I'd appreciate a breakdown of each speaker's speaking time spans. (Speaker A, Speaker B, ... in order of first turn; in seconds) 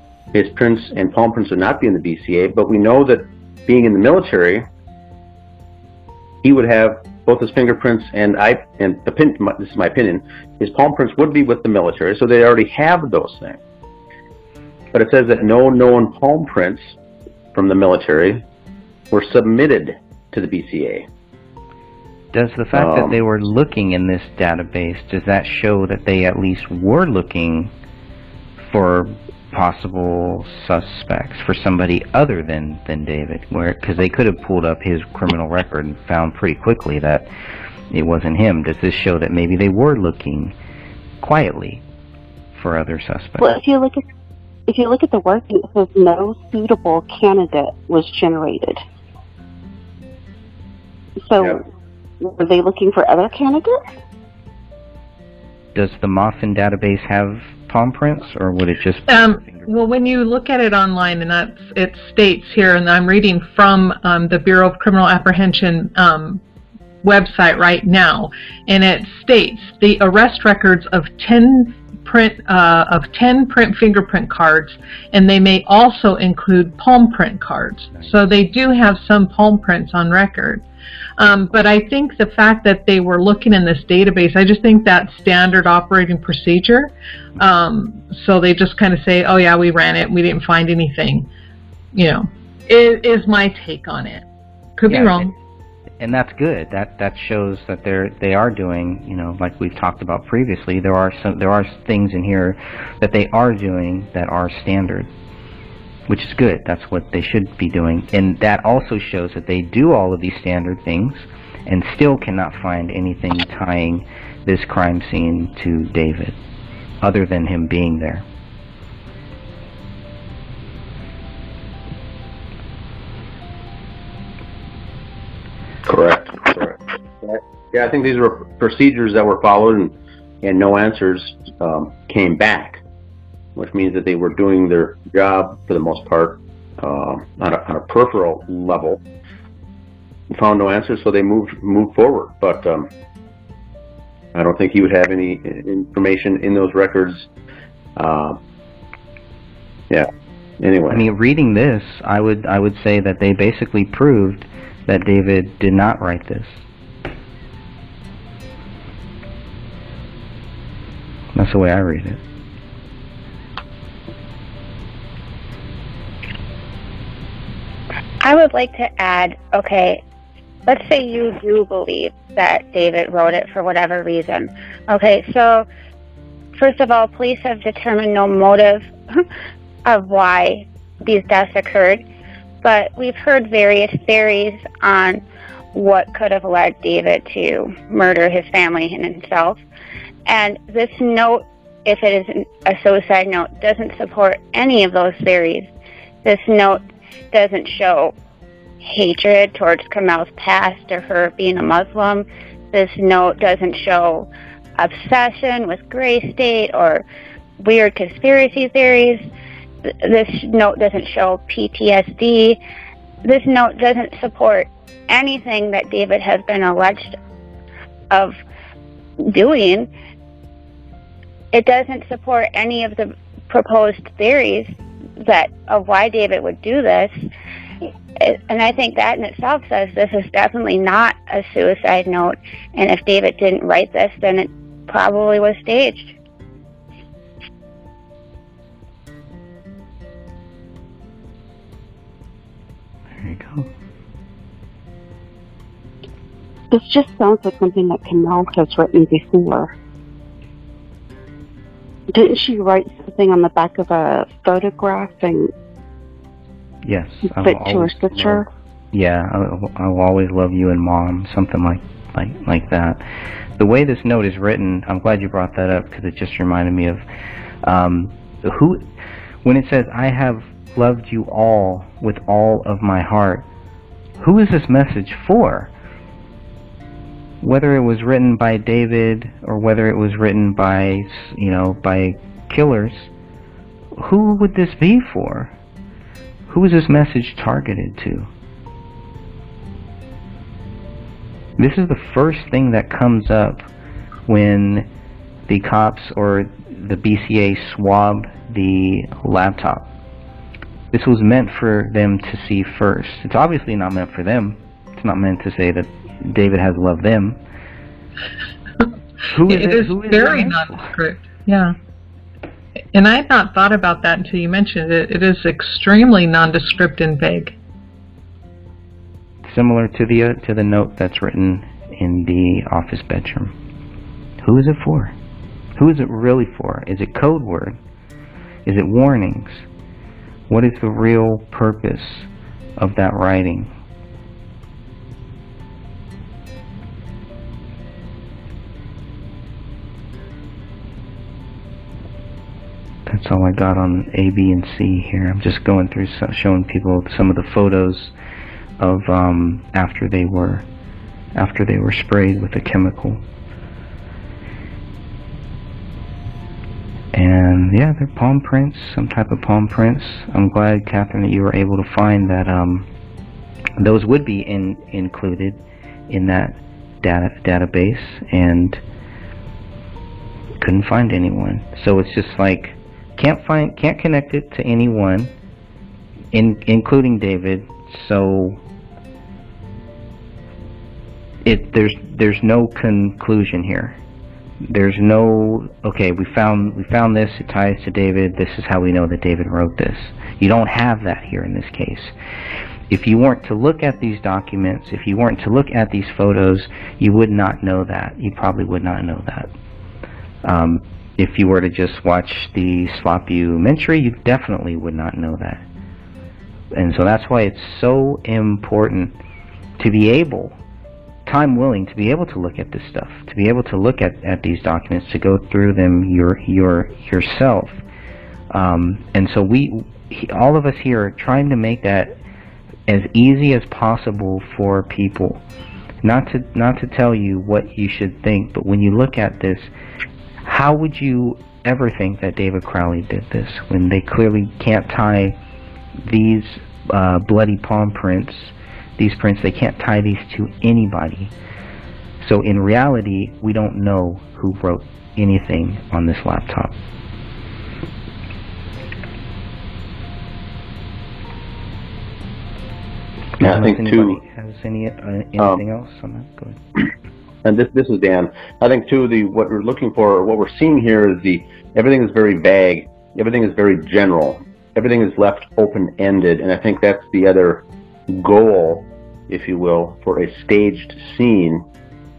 Speaker A: 0.3-4.7, 6.4-13.6, 14.9-16.9, 17.5-18.4, 19.1-21.1, 22.7-23.2, 125.8-132.8, 133.6-139.0, 140.3-142.9, 144.3-147.3, 147.9-148.4, 150.6-151.1, 453.4-454.2, 457.4-471.6
Speaker B: 22.3-27.7, 28.6-37.3, 37.9-40.5, 41.2-41.8, 42.5-43.6, 55.7-59.7, 94.9-95.3, 96.0-105.1, 106.1-116.4, 117.0-118.3, 150.9-156.7, 161.3-162.2, 243.2-243.7, 256.9-263.0, 263.6-267.0, 267.6-268.9, 269.4-273.4, 274.2-275.7, 277.4-283.1, 283.9-285.5, 286.5-288.3, 291.6-293.7, 294.3-294.9, 295.5-299.9, 300.9-307.4, 309.3-310.9, 319.5-323.5, 324.4-325.1, 325.8-327.8, 328.6-329.6, 330.5-333.7, 343.1-348.1, 348.8-350.6, 351.4-353.2, 357.1-362.9, 363.8-368.8, 370.6-375.3, 376.3-378.6, 381.4-384.0, 384.6-392.1, 392.9-399.5, 400.4-405.6, 406.7-409.1, 409.8-410.6, 411.3-417.8, 418.5-422.1, 422.9-425.4, 426.0-429.7, 430.4-435.4, 436.1-441.3, 442.2-446.8, 453.4-456.6
Speaker C: 43.4-44.0, 44.7-48.8, 51.3-51.6, 52.2-53.8, 246.7-249.7, 252.1-255.5, 257.4-258.5
Speaker D: 59.1-66.4, 67.0-80.6, 81.2-91.3, 91.9-94.2, 94.8-95.3, 309.5-311.7, 312.9-317.6
Speaker E: 168.2-170.0, 170.7-175.7, 176.6-179.3, 179.8-182.0, 182.6-185.2, 185.7-189.6, 190.3-195.7, 196.2-198.1, 198.8-207.1, 207.6-209.2, 209.9-212.6, 213.2-217.2, 218.1-218.4, 219.2-219.9, 221.5-227.1, 228.2-236.1